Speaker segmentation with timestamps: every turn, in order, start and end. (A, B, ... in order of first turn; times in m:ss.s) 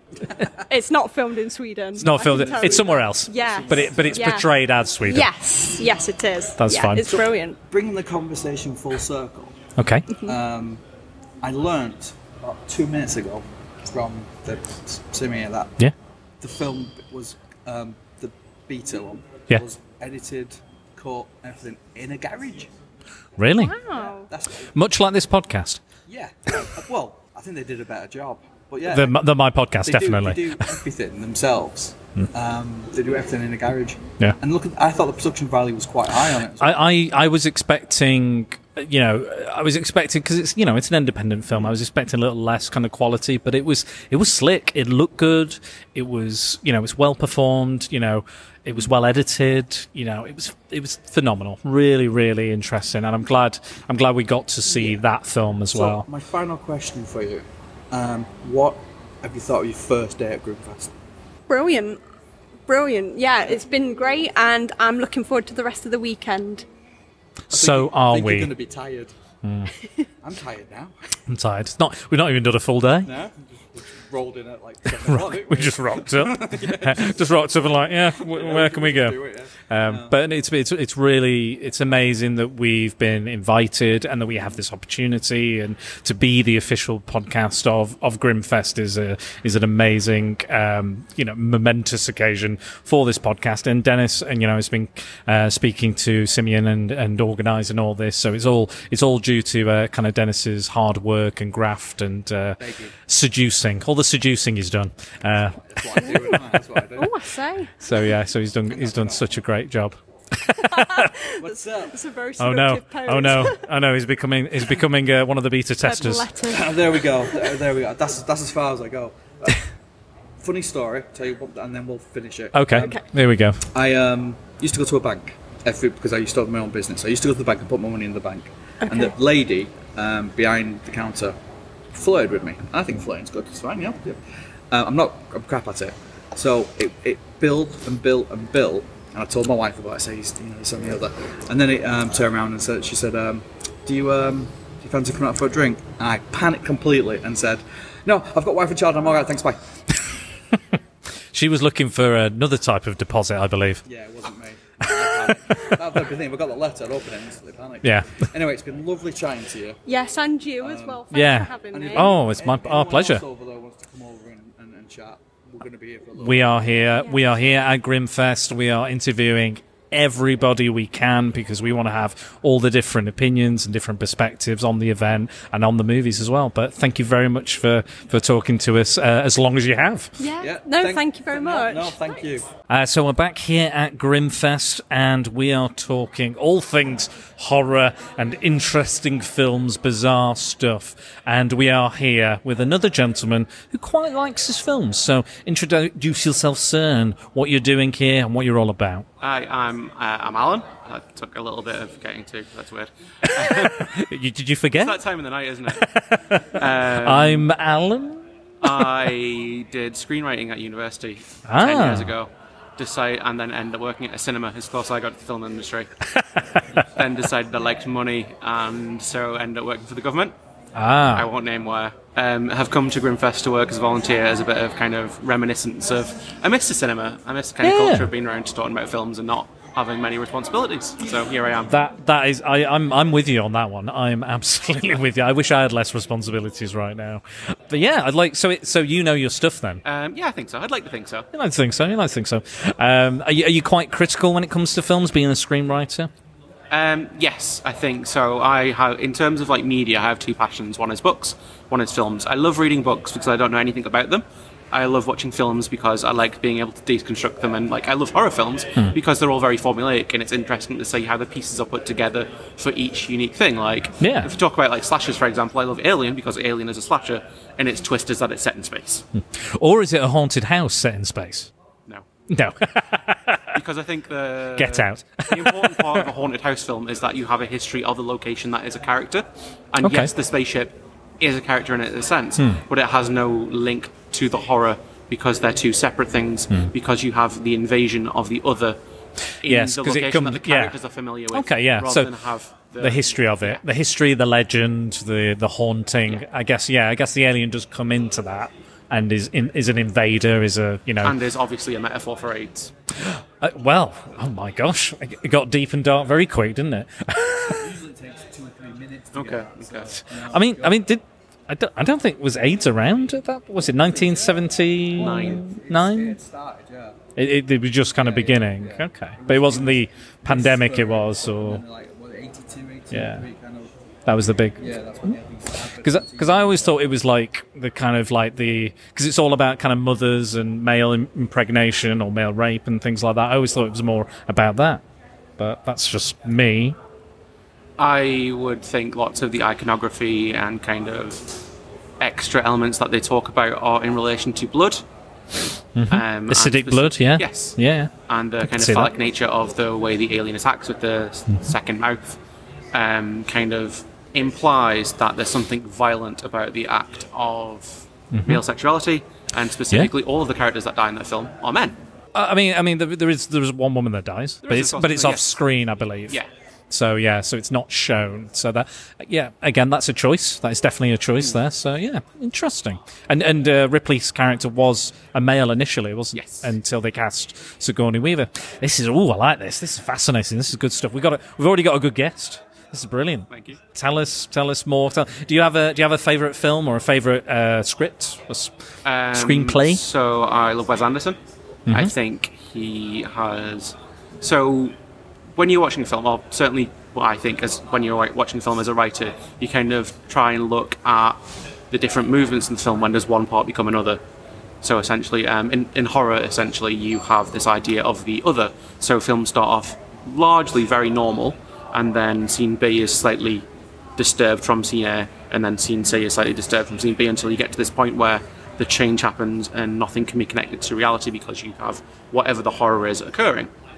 0:00.7-0:04.5 A
0:02.0-0:05.3 B
0:02.1-0:04.3 C
0:05.0-0:07.6 A
0:06.6-0:07.1 B
0:07.0-0:09.6 C
0:09.8-0:10.1 B
0:10.1-0:10.4 A
0:10.2-0:10.8 C
0:11.4-0:15.8 C
0:16.4-0:22.7 C
0:23.4-0:23.8 B
0:23.6-0:24.3 A
0:23.9-0:24.7 C
0:24.7-0:25.8 B
0:26.1-0:29.2 C
0:28.9-0:30.6 B
0:29.8-0:36.9 C
0:36.6-0:56.1 B
0:54.7-0:55.0 C
0:55.7-1:00.9 C
1:01.5-1:02.0 A
1:02.7-1:06.7 A
1:07.5-1:08.5 B
1:07.5-1:09.1 C
1:09.4-1:09.7 B
1:10.2-1:10.9 C
1:11.3-1:13.1 B
1:13.0-1:17.3 C
1:15.0-1:45.6 B
1:18.1-1:20.2 C
1:42.6-1:42.9 C
1:45.5-1:47.1 C
1:46.1-1:46.3 B
1:47.0-1:47.7 A
1:47.8-1:51.1 B
1:48.7-1:49.3 C
1:50.6-1:53.7 A
1:51.4-1:52.0 C
1:52.4-1:56.3 B
1:55.8-1:57.6 A
1:56.5-1:59.7 C
2:00.4-2:03.0 C
2:02.5-2:03.6 B
2:02.7-2:03.0 A
2:03.7-2:11.4 C
2:08.8-2:09.1 A
2:11.9-2:14.2 C
2:14.7-2:29.6 C
2:31.3-2:33.8 B
2:33.9-2:39.8 C
2:35.2-2:35.7 B
2:37.8-2:38.1 B
2:39.9-2:42.1 A
2:40.6-2:41.0 C
2:41.1-2:43.2 B
2:41.7-2:46.6 C
2:46.2-3:00.2 B
2:47.0-2:47.2 A
3:00.2-3:02.0 A
3:00.4-3:02.5 C
3:02.7-3:19.1 B
3:19.2-3:23.9 D
3:23.4-3:25.0 B
3:24.8-3:25.8 D
3:25.8-3:28.8 B
3:26.6-3:27.5 D
3:28.6-3:35.9 D
3:31.5-3:32.1 B
3:37.0-3:40.4 D
3:40.8-3:41.3 B
3:41.1-3:51.7 D
3:47.6-3:48.1 B
3:51.7-3:59.8 B
3:59.8-4:01.3 D
4:01.3-4:06.1 B
4:06.7-4:29.0 D
4:24.0-4:24.3 B
4:29.2-4:31.5 B
4:32.3-4:33.4 B
4:33.5-4:48.8 D
4:34.6-4:36.0 B
4:39.8-4:40.1 B
4:49.4-4:50.8 B
4:49.4-4:53.6 D
4:51.3-4:52.1 B
4:52.8-5:01.2 B
5:01.0-5:02.7 D
5:03.0-5:07.6 B
5:07.5-5:10.8 C
5:09.1-5:09.9 D
5:10.1-5:16.2 B
5:13.9-5:14.4 C
5:15.0-5:17.0 C
5:15.0-5:15.4 D
5:17.2-5:21.6 B
5:18.0-5:23.7 C
5:22.9-5:23.2 B
5:24.1-5:24.7 B
5:24.6-5:26.7 C
5:25.8-5:34.8 B
5:35.4-5:36.8 B
5:37.8-5:41.4 D
5:42.0-5:44.8 D
5:45.8-5:48.9 B
5:45.9-5:52.2 D
5:52.7-6:01.8 D
5:58.1-5:58.4 B
6:02.2-6:06.2 B
6:04.4-6:05.4 D
6:06.7-6:28.5 B
6:16.1-6:16.5 D
6:23.3-6:23.6 D
6:28.8-6:31.2 D
6:29.1-6:29.8 B
6:31.7-6:31.9 B
6:31.7-6:34.7 D
6:35.4-6:44.0 D
6:44.6-6:53.5 D
6:54.0-7:03.5 D